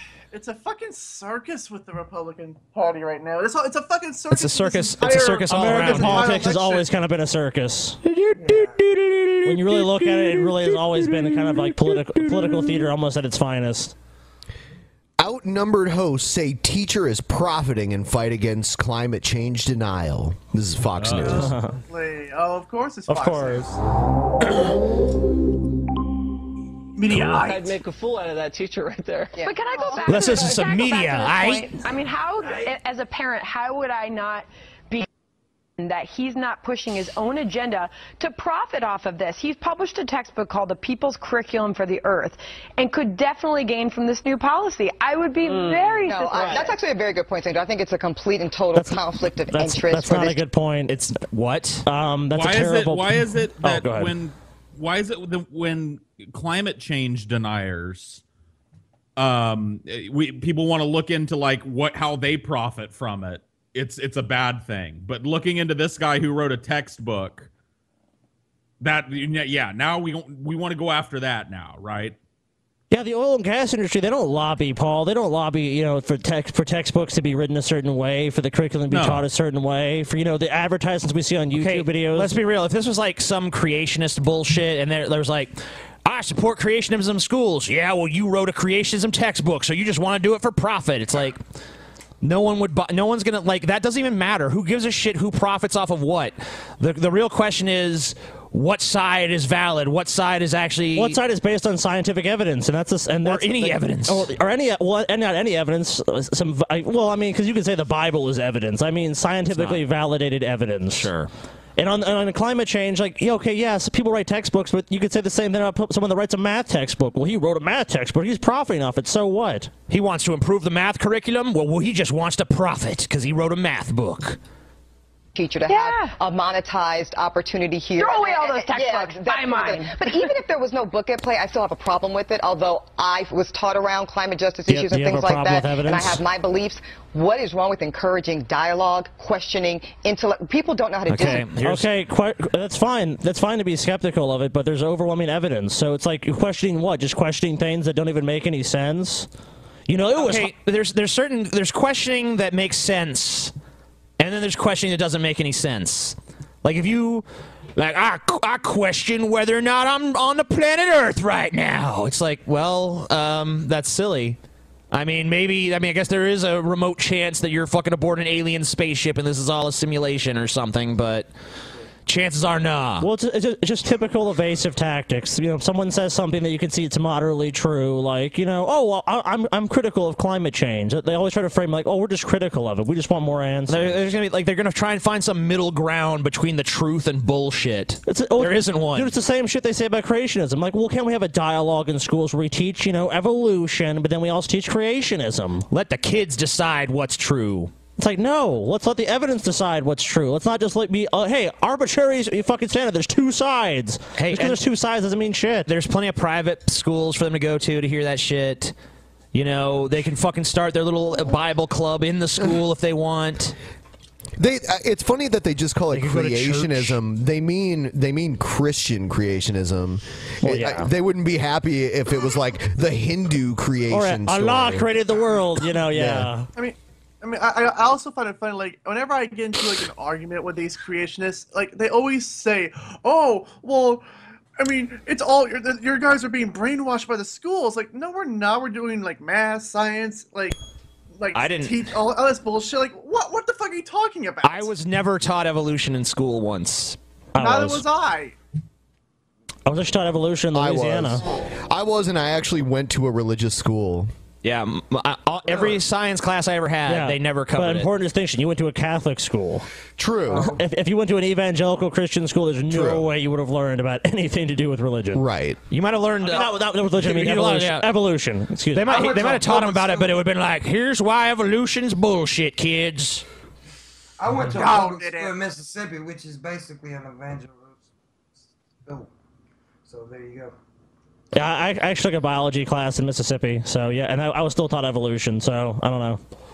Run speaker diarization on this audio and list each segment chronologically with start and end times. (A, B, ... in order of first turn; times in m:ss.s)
0:00.3-0:06.9 A
0:04.3-0:06.4 B
0:05.5-0:08.0 C
0:08.3-0:08.8 D
0:09.4-0:13.9 C
0:15.2-0:21.5 E
0:21.0-0:21.3 F
0:21.2-0:23.8 A
0:21.3-0:21.7 C
0:23.1-0:23.6 C
0:27.0-0:27.8 A
0:27.4-0:29.5 G
0:29.4-0:35.0 H
0:30.1-0:31.7 B
0:35.8-0:46.8 H
0:45.6-0:50.4 I
0:48.7-0:51.0 C
0:50.9-0:51.8 B
0:51.8-0:54.1 C
0:52.3-0:58.2 F
0:59.2-1:07.5 F
1:08.8-1:12.2 F
1:12.9-1:22.3 C
1:18.9-1:19.2 F
1:21.5-1:31.4 B
1:32.2-1:41.2 B
1:40.9-1:51.1 C
1:43.2-1:44.3 B
1:49.5-1:49.8 B
1:50.9-1:51.3 B
1:51.8-1:59.7 C
1:59.9-2:04.4 B
2:05.3-2:21.5 I
2:05.7-2:06.2 H
2:08.0-2:10.3 H
2:14.7-2:16.2 C
2:21.1-2:21.9 B
2:21.6-2:29.3 C
2:29.9-2:30.5 C
2:30.1-2:33.5 B
2:34.2-2:37.2 B
2:37.8-2:44.4 B
2:44.9-2:51.3 B
2:52.0-2:53.1 B
2:53.0-3:04.0 C
3:03.7-3:09.1 B
3:08.0-3:15.7 C
3:15.7-3:17.7 B
3:18.0-3:25.7 C
3:24.2-3:24.6 B
3:25.7-3:28.7 B
3:29.3-3:33.5 B
3:34.4-3:44.9 E
3:35.9-3:36.9 B
3:40.4-3:40.9 C
3:43.9-3:46.5 C
3:45.9-3:46.3 E
3:46.6-3:54.0 A
3:54.6-4:00.6 A
4:01.2-4:04.7 A
4:01.3-4:01.8 B
4:04.4-4:07.0 B
4:07.3-4:07.8 C
4:07.4-4:08.4 A
4:09.6-4:11.2 C
4:10.5-4:14.1 E
4:14.4-4:17.9 B
4:16.9-4:19.6 C
4:20.0-4:20.5 E
4:20.3-4:20.6 D
4:20.5-4:25.2 C
4:22.7-4:23.0 E
4:25.1-4:25.6 E
4:25.7-4:27.9 B
4:26.2-4:29.0 C
4:28.7-4:33.2 B
4:28.8-4:30.1 D
4:34.2-4:37.8 D
4:34.5-4:35.4 A
4:39.8-4:40.5 D
4:41.3-4:46.2 C